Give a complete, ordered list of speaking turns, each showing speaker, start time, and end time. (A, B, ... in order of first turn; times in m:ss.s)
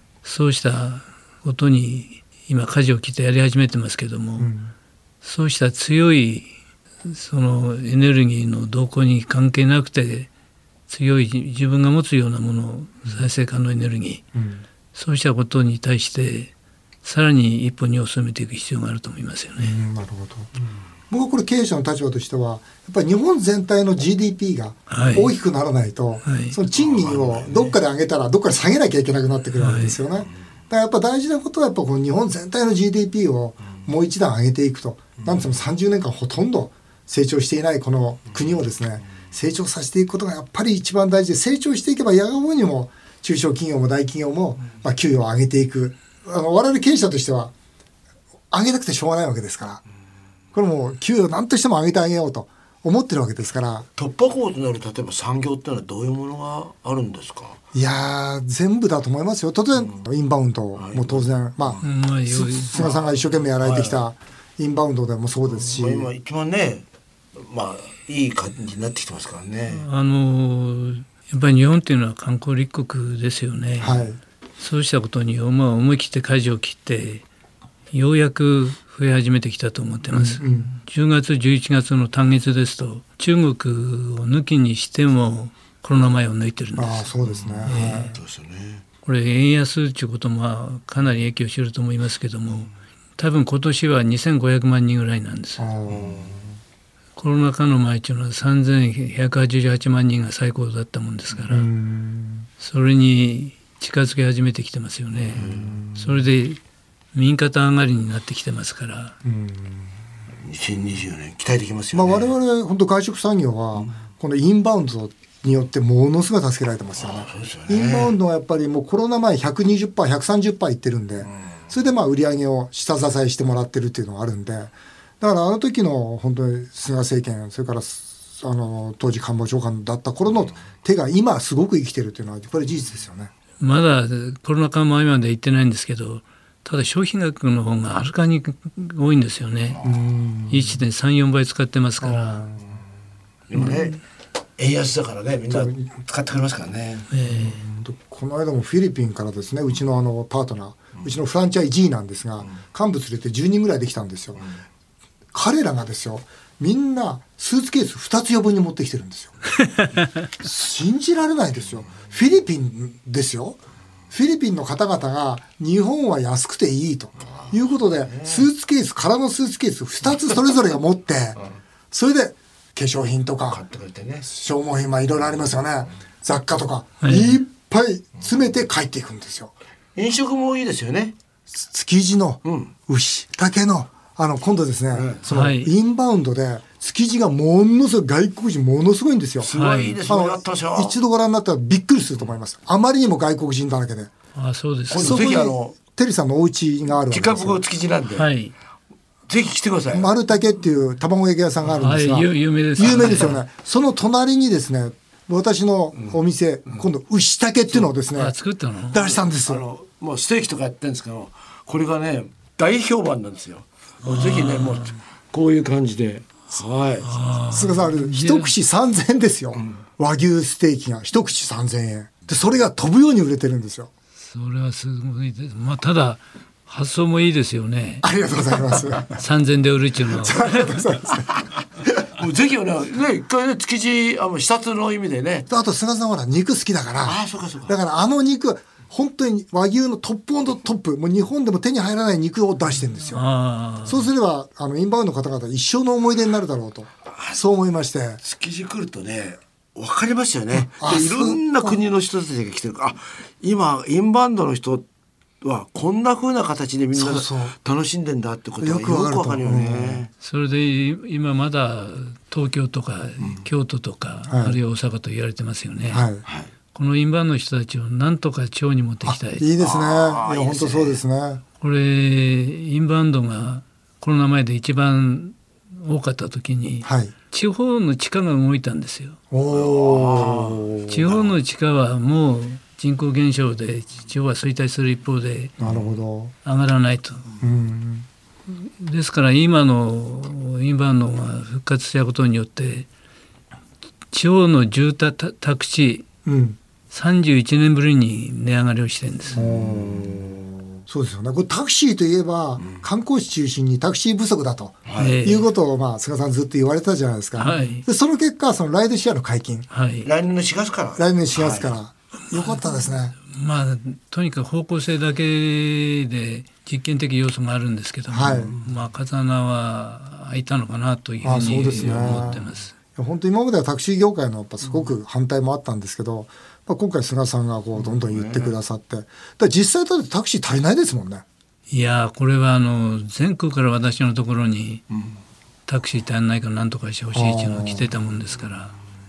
0:00.2-0:04.5 A
0:04.4-0:04.7 B
0:05.2-0:06.5 A
0:07.0-0:10.3 A
0:10.9-0:14.2 A
0:14.3-0:14.6 B
0:14.9-0:16.5 A
0:17.0-0:19.8 A
0:19.6-0:20.5 B
0:21.1-0:47.5 B
0:24.9-0:25.3 A
0:26.2-0:26.6 A
0:26.7-0:27.8 C
0:29.6-0:30.0 A
0:48.5-0:49.8 B
0:50.5-0:53.9 B
0:54.0-0:57.6 C
0:57.7-1:06.1 B
1:00.8-1:01.8 C
1:01.8-1:02.9 A
1:02.8-1:04.0 C
1:05.5-1:06.8 C
1:07.4-1:09.8 C
1:09.7-1:14.1 A
1:13.8-1:14.2 B
1:14.6-1:17.2 A
1:17.9-1:27.1 A
1:20.1-1:20.8 B
1:26.8-1:28.1 B
1:27.2-1:28.8 C
1:27.6-1:28.2 A
1:29.0-1:35.6 A
1:35.6-1:36.5 B
1:35.9-1:36.4 C
1:37.2-1:41.7 A
1:41.5-1:42.5 B
1:42.6-1:46.6 A
1:45.3-1:45.7 C
1:45.4-1:46.2 B
1:47.1-1:49.2 A
1:49.2-1:49.9 B
1:50.4-1:52.3 C
1:51.9-2:13.3 B
1:57.0-1:58.1 C
2:13.6-2:19.8 A
2:19.7-2:20.0 C
2:19.8-2:20.8 B
2:20.5-2:22.5 A
2:22.0-2:22.8 B
2:23.5-2:24.0 C
2:24.6-2:27.1 C
2:25.5-2:25.8 B
2:27.1-2:27.6 A
2:27.2-2:34.4 B
2:35.3-2:39.4 B
2:40.4-2:43.6 B
2:44.1-2:51.4 B
2:48.1-2:48.4 C
2:51.9-2:53.6 B
2:53.5-2:54.3 C
2:54.2-2:59.5 B
2:57.0-2:57.4 A
3:00.0-3:01.1 C
3:01.5-3:14.1 B
3:02.4-3:02.7 C
3:04.9-3:05.2 C
3:05.3-3:05.7 A
3:09.4-3:11.0 C
3:09.5-3:10.0 A
3:14.3-3:15.3 A
3:14.9-3:15.7 C
3:15.0-3:17.6 B
3:17.1-3:18.3 C
3:18.2-3:18.5 A
3:19.3-3:20.1 C
3:19.9-3:28.4 B
3:21.8-3:23.4 A
3:28.1-3:29.0 A
3:28.9-3:29.6 B
3:28.9-3:37.1 C
3:34.1-3:34.9 A
3:37.0-3:38.5 A
3:37.5-3:43.9 B
3:44.2-3:48.0 A
3:48.0-3:49.2 B
3:49.2-3:50.8 A
3:50.1-3:51.3 B
3:52.0-3:55.5 C
3:55.5-4:03.2 B
3:57.0-3:57.8 C
4:03.1-4:04.1 A
4:03.8-4:08.2 B
4:08.2-4:14.8 C
4:10.5-4:11.8 B
4:15.4-4:20.1 C
4:16.9-4:17.5 B
4:18.6-4:20.0 B
4:20.2-4:26.0 A
4:24.3-4:24.6 B
4:25.9-4:26.2 B
4:26.7-4:29.4 A
4:29.0-4:31.4 B
4:29.6-4:31.0 C
4:31.6-4:39.2 A
4:36.8-4:37.1 B
4:39.3-4:41.0 B
4:39.5-4:41.3 C
4:40.9-4:45.5 A
4:45.6-4:46.3 B
4:46.4-4:47.2 A
4:47.4-4:48.1 B
4:48.5-4:52.9 A
4:54.1-4:56.0 A
4:56.2-4:56.6 B
4:56.9-4:59.5 A
4:59.3-5:09.6 B
4:59.4-5:00.3 C
5:04.8-5:05.2 C
5:05.0-5:05.5 A
5:07.4-5:07.8 A
5:09.7-5:10.1 A
5:10.0-5:11.7 C
5:11.0-5:13.2 B
5:12.3-5:12.6 A
5:13.2-5:22.7 A
5:18.1-5:18.5 B
5:18.3-5:18.6 C
5:21.2-5:22.4 B
5:23.0-5:31.2 B
5:27.8-5:28.5 C
5:31.7-5:34.8 A
5:35.7-5:38.7 A
5:37.1-5:37.9 B